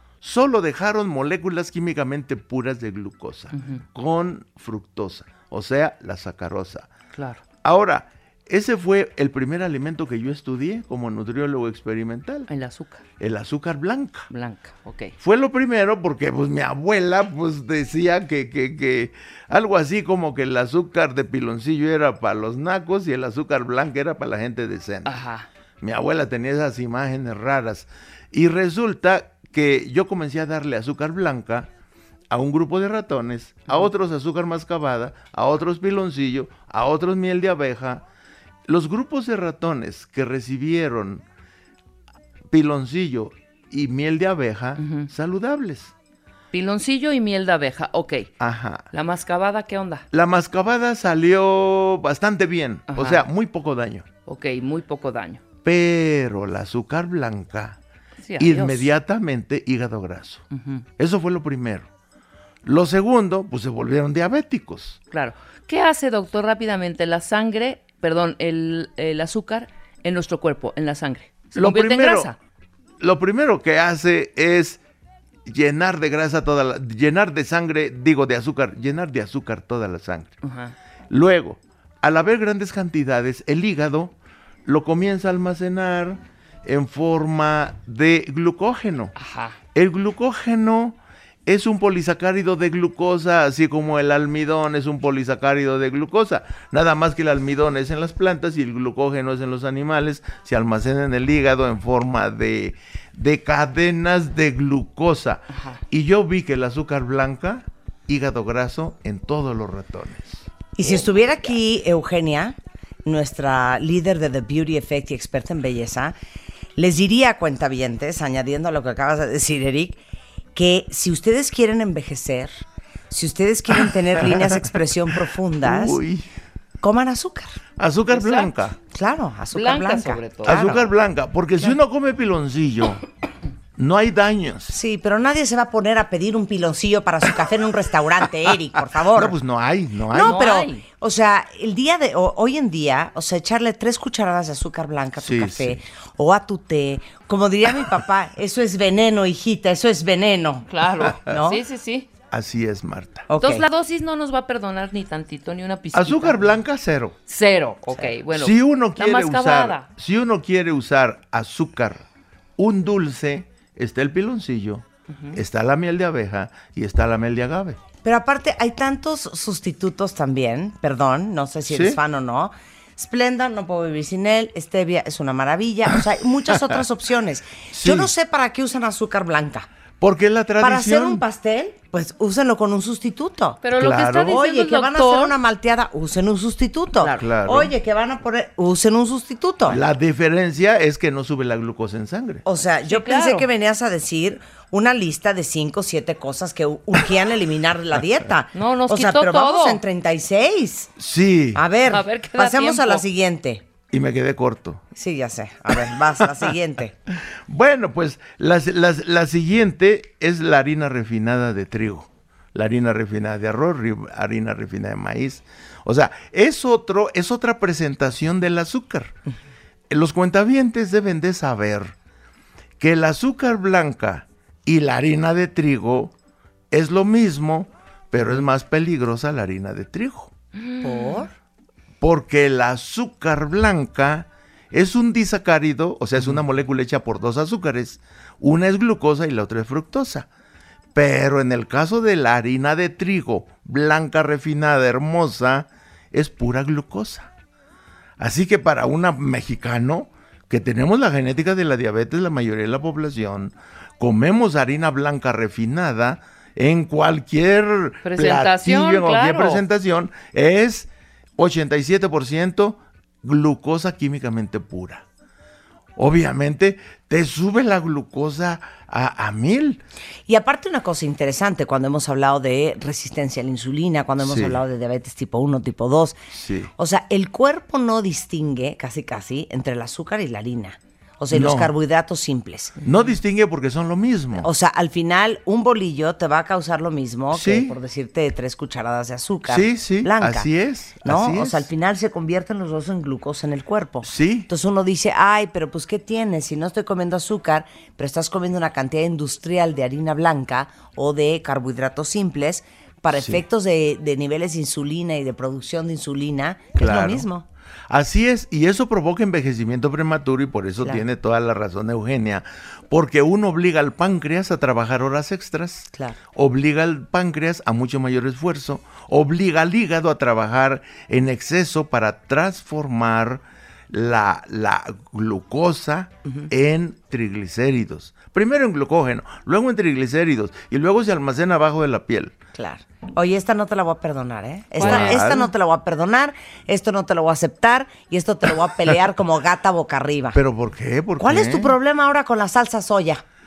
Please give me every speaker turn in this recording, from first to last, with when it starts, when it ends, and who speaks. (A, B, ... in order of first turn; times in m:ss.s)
0:00.2-0:06.9 A
0:03.5-0:03.8 B
0:07.1-0:07.4 B
0:07.6-0:12.5 A
0:12.5-0:13.0 B
0:13.2-0:14.3 A
0:14.3-0:15.1 B
0:15.2-0:25.2 A
0:25.0-0:25.5 B
0:25.8-0:31.7 A
0:32.3-0:38.0 A
0:38.7-0:41.2 A
0:42.5-0:45.9 A
0:44.8-0:45.1 B
0:46.5-0:48.3 B
0:48.4-0:48.9 A
0:48.9-0:50.0 B
0:50.1-0:54.0 A
0:52.9-0:53.2 B
0:54.2-0:55.4 B
0:55.6-0:57.8 A
0:58.2-0:58.9 B
0:58.4-1:00.4 A
1:00.5-1:00.8 B
1:01.0-1:01.8 A
1:02.6-1:05.0 A
1:05.1-1:12.4 B
1:11.5-1:12.3 A
1:13.0-1:14.8 A
1:15.5-1:20.3 A
1:20.4-1:20.7 B
1:21.1-1:24.1 A
1:24.6-1:29.1 A
1:29.2-1:29.6 B
1:29.7-1:50.5 A
1:50.8-1:56.1 C
1:56.8-2:00.0 C
2:00.5-2:06.0 C
2:05.6-2:06.3 A
2:06.8-2:07.6 C
2:07.8-2:08.8 A
2:08.1-2:08.5 B
2:08.9-2:10.9 C
2:09.5-2:10.5 B
2:10.4-2:13.0 A
2:13.8-2:14.7 A
2:14.7-2:19.4 C
2:19.1-2:20.4 A
2:20.1-2:30.7 C
2:20.2-2:20.8 B
2:25.2-2:25.8 A
2:30.7-2:32.1 B
2:31.2-2:31.6 C
2:32.3-2:33.3 A
2:33.3-2:33.7 C
2:33.4-2:36.5 B
2:35.9-2:37.1 A
2:37.3-2:39.9 B
2:38.3-2:42.0 A
2:42.6-2:47.8 A
2:45.1-2:45.4 B
2:48.0-2:59.7 C
2:51.7-2:52.0 A
2:57.7-2:58.1 A
3:00.0-3:01.2 A
3:00.6-3:03.6 C
3:03.6-3:05.3 B
3:03.8-3:04.4 A
3:04.3-3:09.8 C
3:07.2-3:07.7 A
3:09.7-3:12.4 A
3:12.4-3:20.9 C
3:12.8-3:13.5 B
3:18.5-3:19.8 B
3:21.0-3:21.6 A
3:21.5-3:23.6 C
3:21.9-3:23.0 B
3:23.9-3:24.8 A
3:24.9-3:27.0 C
3:27.5-3:39.1 A
3:39.9-3:41.9 A
3:42.8-3:46.1 A
3:46.7-3:50.3 A
3:50.6-3:51.2 B
3:50.8-3:51.3 C
3:52.0-4:00.3 A
4:00.9-4:07.3 A
4:08.2-4:25.0 A
4:18.0-4:19.6 B
4:26.0-4:29.8 A
4:30.3-4:36.2 C
4:34.2-4:34.6 A
4:36.3-4:36.7 A
4:36.8-4:42.8 C
4:41.3-4:41.7 A
4:42.8-4:44.5 A
4:42.8-4:43.1 B
4:44.3-4:50.5 C
4:47.3-4:47.7 A
4:49.5-4:51.6 A
4:51.0-5:07.4 C
4:54.0-4:54.5 A
5:03.1-5:03.4 A
5:06.8-5:07.3 A
5:07.9-5:32.4 A
5:15.9-5:16.2 C
5:32.5-5:40.4 C
5:34.8-5:35.3 B
5:34.8-5:35.5 A
5:40.3-5:41.7 A
5:41.2-5:43.2 C